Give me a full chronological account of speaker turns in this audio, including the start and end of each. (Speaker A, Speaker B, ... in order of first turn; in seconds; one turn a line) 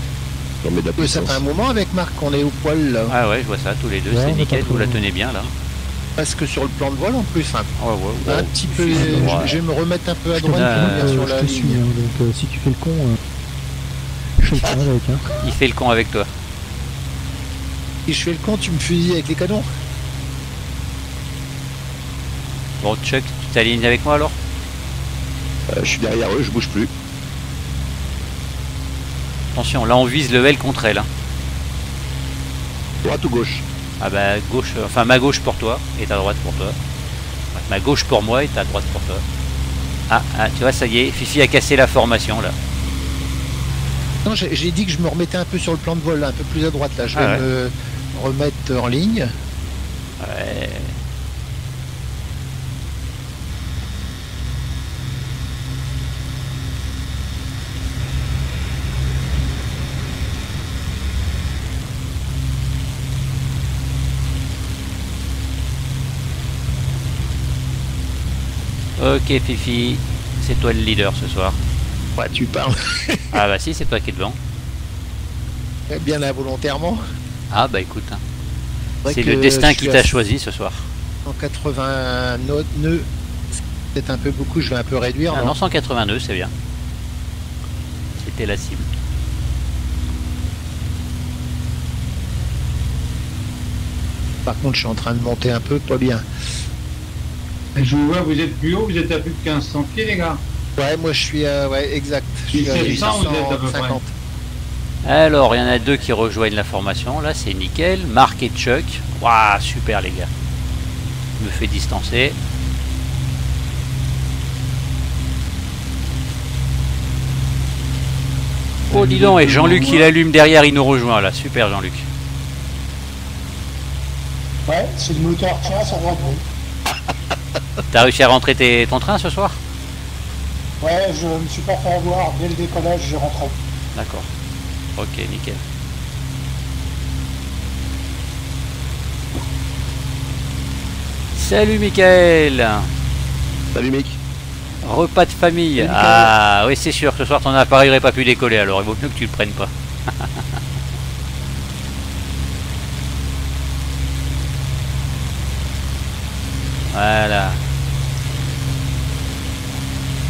Speaker A: 0.6-1.4
Speaker B: 1.0-3.1
Speaker C: 3.1-5.5
Speaker D: 4.1-5.0
Speaker B: 6.2-7.7
Speaker C: 7.8-9.6
Speaker B: 8.2-11.8
Speaker D: 8.9-9.4
Speaker C: 10.4-11.2
Speaker D: 10.5-13.2
Speaker D: 14.4-15.3
Speaker C: 15.4-16.3
Speaker B: 18.1-19.7
Speaker C: 22.8-24.4
Speaker A: 25.7-26.9
Speaker C: 29.5-31.1
Speaker A: 33.0-33.6
Speaker C: 34.0-36.8
Speaker C: 37.5-39.2
Speaker C: 40.1-42.6
Speaker B: 44.2-49.3
Speaker C: 47.1-47.4
Speaker C: 50.2-51.0
Speaker C: 69.0-71.6
Speaker B: 72.2-73.3
Speaker C: 73.3-74.4
Speaker B: 75.9-77.0
Speaker C: 77.5-78.2
Speaker B: 79.0-80.1
Speaker C: 79.1-80.9
Speaker B: 81.2-83.1
Speaker B: 83.9-85.6
Speaker C: 85.3-86.5
Speaker C: 88.2-88.9
Speaker B: 94.5-96.2
Speaker E: 97.8-100.4
Speaker B: 100.8-104.1
Speaker E: 102.5-104.0
Speaker C: 102.8-103.2
Speaker C: 105.0-110.3
Speaker C: 111.4-112.4
Speaker E: 118.9-120.1
Speaker C: 118.9-122.1
Speaker F: 124.7-126.4
Speaker C: 127.9-129.6
Speaker F: 130.8-133.6
Speaker C: 133.9-134.3
Speaker C: 135.0-135.6
Speaker C: 141.3-142.9
Speaker A: 143.7-144.2
Speaker C: 144.8-150.4
Speaker B: 145.8-146.3
Speaker C: 156.9-157.6